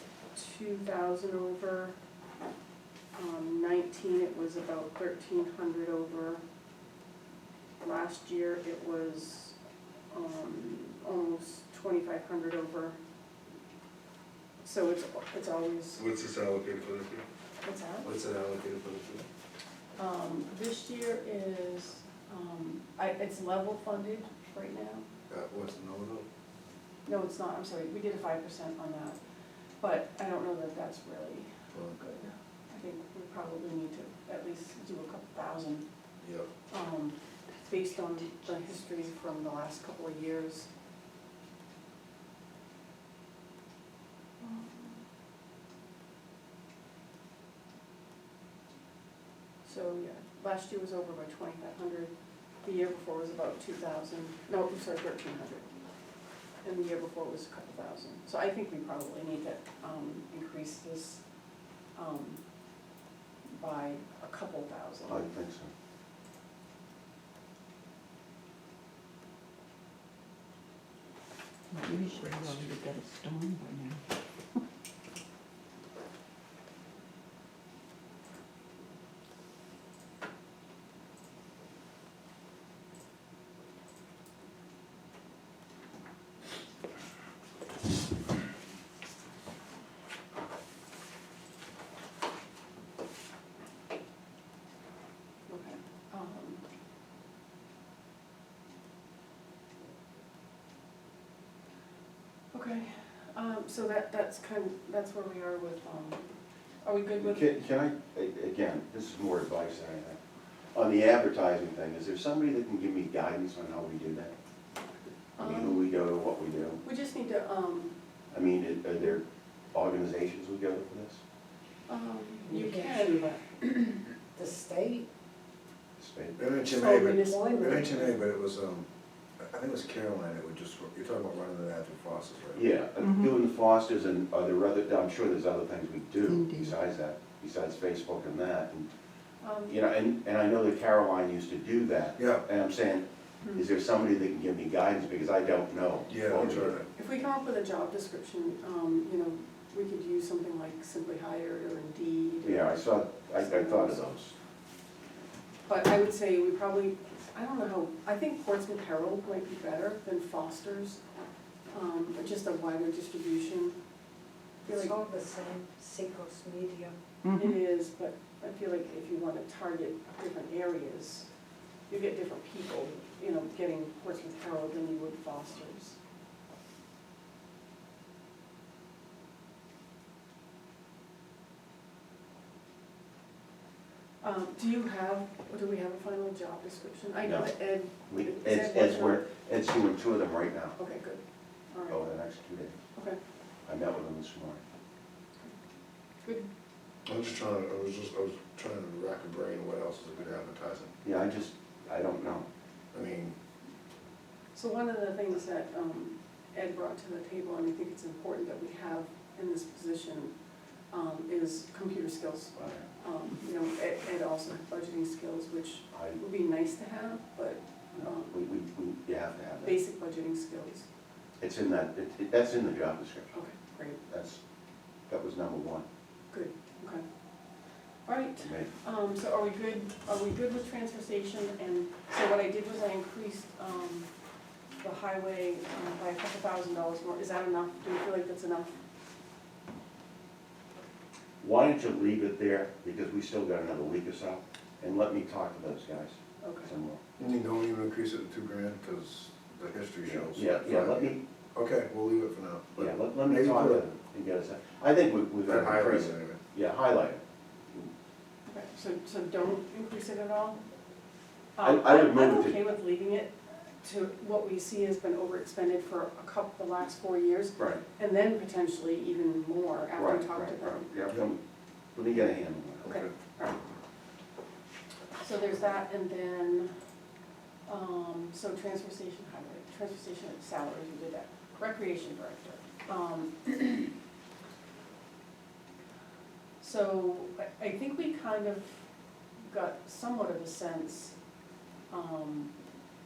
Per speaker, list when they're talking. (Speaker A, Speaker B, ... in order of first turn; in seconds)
Speaker A: 0.3-2.0, 3.1-6.4, 7.8-9.6, 10.1-13.0, 14.6-16.0, 17.6-18.1, 20.0-25.1, 27.1-29.2, 29.8-35.9, 36.7-40.7, 49.6-52.1, 52.6-55.6, 56.6-61.2, 62.0-62.4, 63.5-65.3, 95.5-96.6, 102.5-106.2, 106.8-107.6, 115.4-115.8, 116.8-118.0, 121.9-124.0, 126.7-128.2, 139.4-139.8, 146.3-154.0, 155.7-161.0, 161.7-163.8, 164.7-164.9, 167.3-171.3, 171.9-176.0, 184.2-189.3, 190.8-192.0, 196.2-196.5, 204.5-210.3, 210.9-218.3, 219.6-220.9, 223.3-224.0, 226.3-227.0, 228.1-234.1, 234.8-238.8, 246.4-246.7, 258.5-260.6, 261.6-270.9, 272.8-273.6, 275.2-276.7, 277.7-283.9, 286.6-288.8, 289.5-291.1, 291.9-292.5
Speaker B: 16.0-17.2, 18.0-19.3, 25.3-26.3, 31.7-32.0, 36.2-36.5, 126.4-128.9, 129.4-132.6, 142.2-142.4, 146.1-146.9, 197.1-200.9, 202.9-203.3, 247.2-253.8, 255.4-256.4
Speaker C: 65.1-65.7, 107.2-110.2, 110.7-114.3, 115.4-116.8, 118.3-121.2, 126.0-126.4, 132.6-138.9, 139.7-146.8, 152.4-154.3, 187.2-187.6, 188.1-190.8, 191.9-192.8, 193.7-194.6, 201.0-202.5, 212.6-212.9, 215.9-216.2, 218.0-219.8, 221.4-223.3, 224.1-224.4, 225.1-225.8, 228.4-228.7, 241.4-247.0, 250.1-251.2, 252.8-257.2, 261.6-262.6, 267.6-267.8, 270.0-271.4, 271.9-273.1
Speaker D: 71.7-72.5, 122.5-123.4, 124.3-125.1, 127.2-127.9, 164.7-166.9
Speaker E: 71.7-74.0, 133.1-133.3, 136.2-136.8, 167.2-167.6